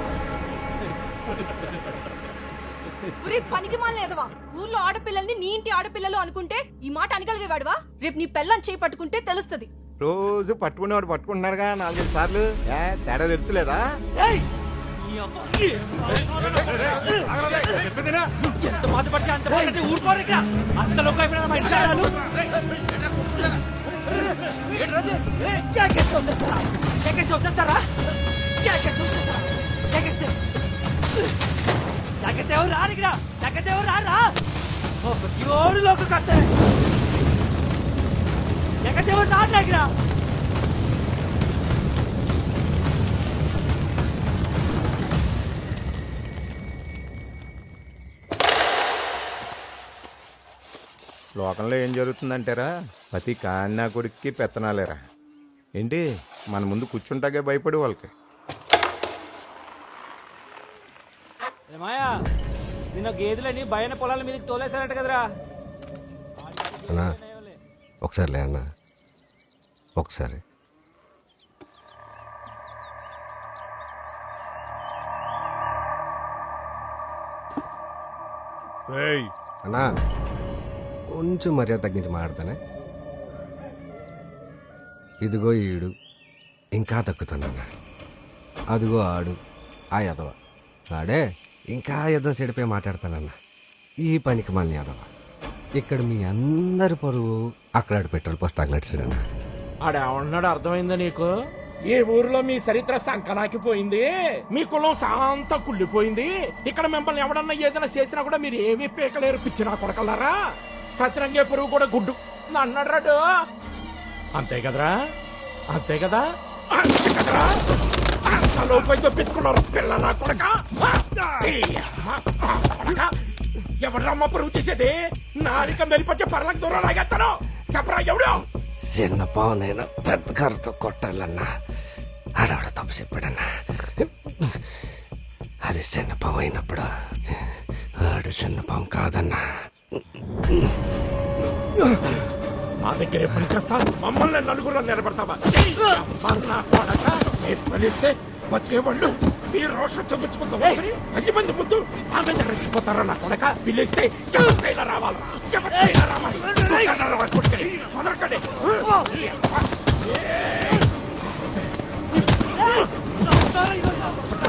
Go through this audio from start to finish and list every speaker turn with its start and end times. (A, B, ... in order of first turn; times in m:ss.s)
0:03.2-0:09.7 A
0:10.0-0:13.8 B
0:15.1-0:16.6 C
0:18.6-0:22.1 C
0:25.3-0:27.8 C
0:28.6-0:30.3 C
0:32.2-0:34.4 C
0:35.0-0:36.5 C
0:38.8-0:39.9 C
0:51.4-0:55.0 B
0:55.8-0:56.0 B
0:56.5-0:58.1 B
1:01.7-1:02.1 C
1:03.0-1:05.2 C
1:06.6-1:07.5 C
1:06.9-1:07.2 D
1:08.0-1:08.6 D
1:10.0-1:10.4 D
1:21.1-1:22.6 D
1:25.2-1:25.9 D
1:26.8-1:27.6 D
1:28.7-1:29.4 D
1:30.0-1:30.3 D
1:30.9-1:33.3 D
1:34.1-1:35.1 D
1:35.8-1:39.2 D
1:39.8-1:50.4 E
1:51.0-1:53.4 E
1:54.4-1:55.0 E
1:55.7-1:57.6 E
1:58.2-2:03.1 E
2:03.8-2:08.5 E
2:08.9-2:11.5 D
2:12.4-2:14.6 D
2:15.6-2:19.4 D
2:22.8-2:40.9 E
2:43.6-2:44.1 C